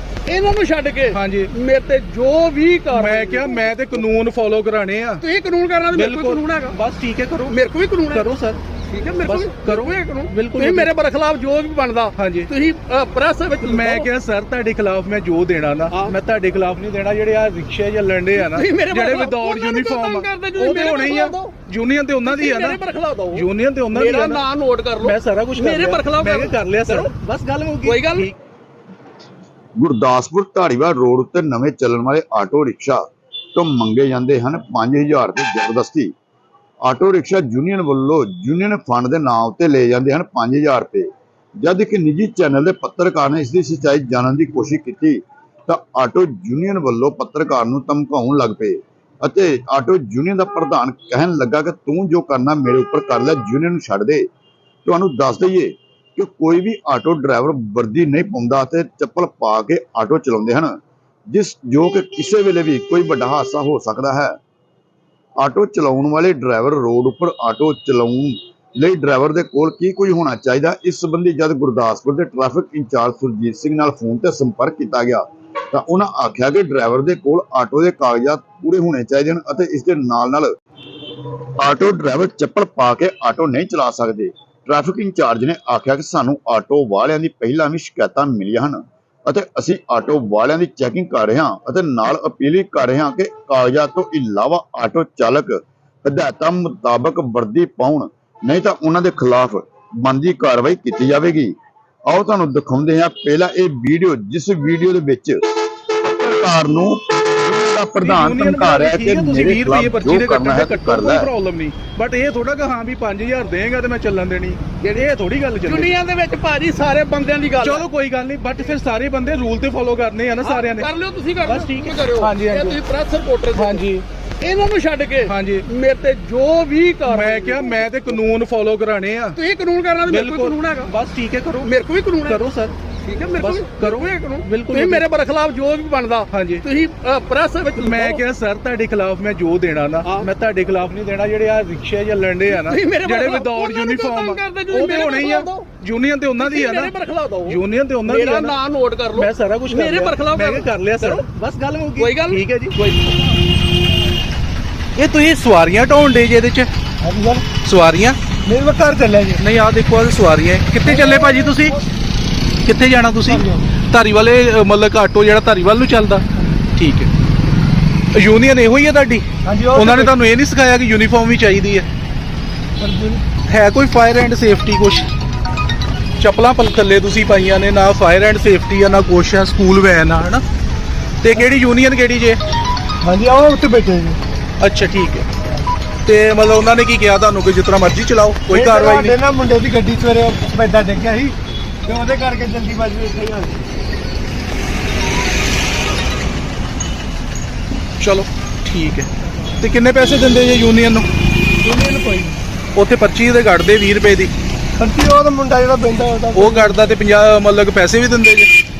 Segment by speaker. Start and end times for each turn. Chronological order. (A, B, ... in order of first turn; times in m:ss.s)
0:00.2-0:04.0 A
0:01.1-0:01.5 B
0:02.9-0:05.2 B
0:05.2-0:06.8 A
0:05.9-0:07.6 B
0:07.4-0:08.3 A
0:08.1-0:08.6 B
0:08.9-0:14.1 A
0:09.2-0:10.9 B
0:12.2-0:12.5 B
0:13.6-0:22.8 B
0:18.3-0:21.5 A
0:22.2-0:27.1 A
0:23.3-0:24.4 B
0:25.0-0:28.4 B
0:27.8-0:28.3 A
0:29.8-0:33.0 C
0:33.6-0:36.1 C
0:36.8-0:41.1 C
0:41.6-0:54.2 C
0:54.8-1:00.7 C
1:01.3-1:04.3 C
1:05.4-1:20.5 C
1:21.2-1:41.5 C
1:42.1-1:45.4 C
1:46.0-1:51.3 C
1:48.0-1:56.0 B
1:55.7-1:57.8 A
1:57.6-2:00.9 B
2:00.4-2:03.8 A
2:01.4-2:02.8 B
2:03.6-2:04.0 B
2:04.4-2:07.9 A
2:05.3-2:05.7 B
2:07.1-2:09.4 B
2:09.3-2:10.9 A
2:10.0-2:11.7 B
2:11.6-2:12.4 A
2:12.3-2:12.7 B
2:13.0-2:18.2 A
2:13.4-2:15.0 B
2:16.3-2:16.6 B
2:17.8-2:26.9 B
2:22.5-2:25.7 A
2:26.4-2:31.2 A
2:27.4-2:28.6 B
2:29.1-2:32.8 B
2:32.0-2:33.3 A
2:35.0-2:36.7 B
2:37.0-2:37.5 D
2:37.6-2:38.2 B
2:38.4-2:39.4 D
2:39.4-2:41.8 B
2:40.8-2:41.9 D
2:42.6-2:47.1 B
2:43.2-2:43.7 D
2:48.1-2:51.9 B
2:49.4-2:50.1 D
2:52.8-2:53.2 D
2:53.5-2:55.1 B
2:56.2-3:00.4 B
3:01.2-3:02.4 B
3:03.0-3:04.2 D
3:04.6-3:05.3 B
3:06.0-3:09.2 B
3:08.5-3:13.6 D
3:18.0-3:21.0 B
3:21.6-3:22.4 D
3:22.8-3:24.3 B
3:24.8-3:26.8 D
3:26.3-3:28.5 B